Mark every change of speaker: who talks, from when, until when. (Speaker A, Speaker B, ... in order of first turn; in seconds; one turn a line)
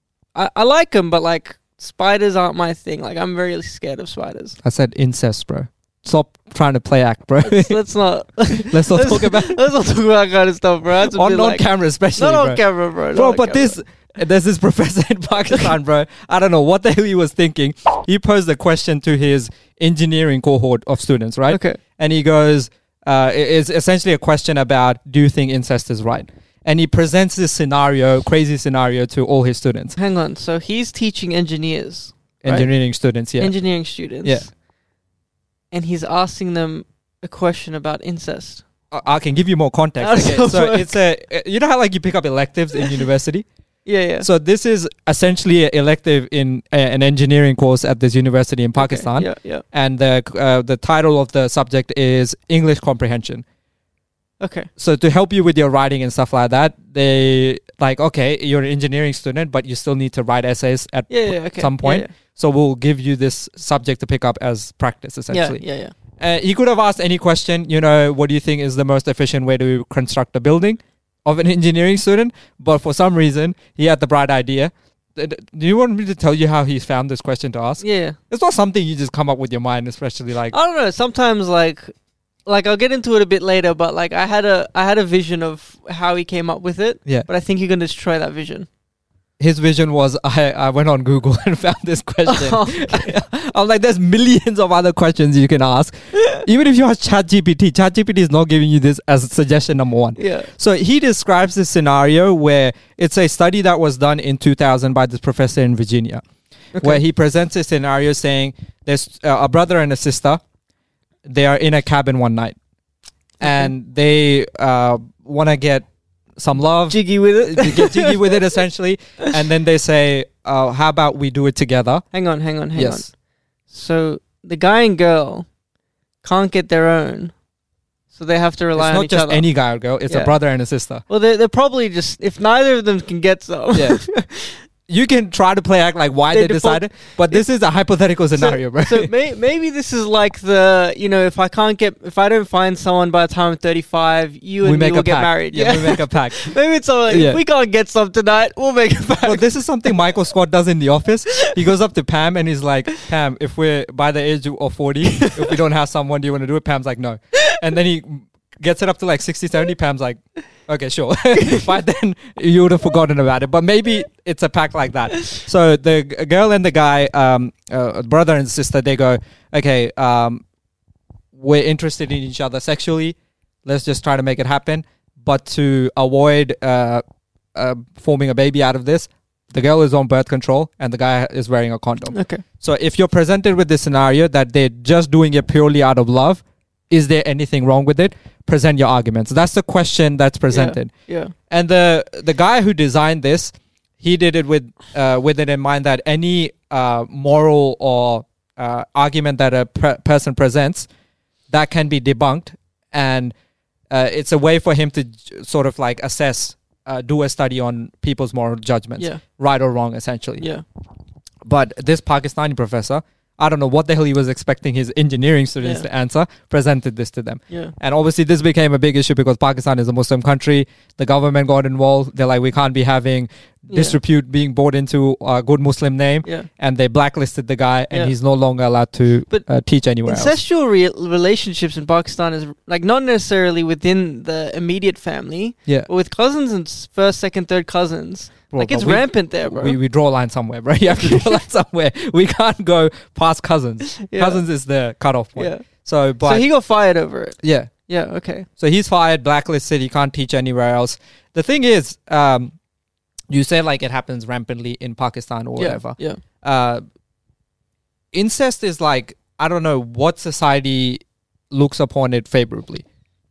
Speaker A: 0.3-4.5
Speaker B: 4.6-7.8
Speaker A: 7.4-11.6
Speaker B: 8.7-9.6
Speaker B: 11.0-12.6
Speaker A: 12.2-13.8
Speaker B: 13.1-30.0
Speaker A: 21.5-21.8
Speaker A: 29.9-32.7
Speaker B: 32.4-33.5
Speaker A: 33.4-34.5
Speaker A: 35.7-38.6
Speaker B: 38.9-43.5
Speaker A: 40.0-41.0
Speaker A: 43.9-44.2
Speaker B: 44.2-53.4
Speaker A: 48.8-49.6
Speaker A: 54.4-54.7
Speaker B: 54.8-65.6
Speaker A: 61.1-62.1
Speaker A: 65.3-65.9
Speaker B: 66.2-80.5
Speaker A: 77.8-78.2
Speaker A: 80.5-81.9
Speaker A: 82.5-88.7
Speaker B: 89.4-106.2
Speaker A: 92.2-93.1
Speaker A: 100.2-100.5
Speaker A: 106.7-107.0
Speaker B: 106.8-110.4
Speaker B: 111.2-112.6
Speaker B: 113.4-115.8
Speaker A: 113.4-113.7
Speaker B: 116.4-122.0
Speaker A: 116.9-118.3
Speaker A: 122.1-123.1
Speaker B: 122.7-123.1
Speaker A: 123.7-125.5
Speaker A: 126.2-127.3
Speaker A: 128.1-129.4
Speaker B: 128.7-131.0
Speaker A: 130.1-130.3
Speaker A: 131.1-134.6
Speaker B: 133.7-134.0
Speaker B: 134.9-139.1
Speaker A: 136.3-137.4
Speaker A: 138.3-149.9
Speaker B: 144.6-146.5
Speaker B: 147.1-147.4
Speaker B: 149.2-170.4
Speaker A: 155.2-155.6
Speaker B: 171.3-177.0
Speaker B: 177.5-190.9
Speaker A: 182.1-182.4
Speaker A: 190.5-191.3
Speaker B: 191.5-200.9
Speaker B: 201.5-203.3
Speaker B: 203.9-210.5
Speaker B: 211.4-230.3
Speaker A: 223.7-224.0
Speaker A: 230.1-239.8
Speaker B: 238.5-246.4
Speaker A: 241.0-241.4
Speaker A: 243.8-244.4
Speaker A: 245.4-245.7
Speaker A: 246.2-248.5
Speaker B: 247.4-247.7
Speaker B: 248.6-252.5
Speaker B: 253.3-256.8
Speaker A: 255.6-256.2
Speaker B: 258.1-261.0
Speaker B: 261.5-262.8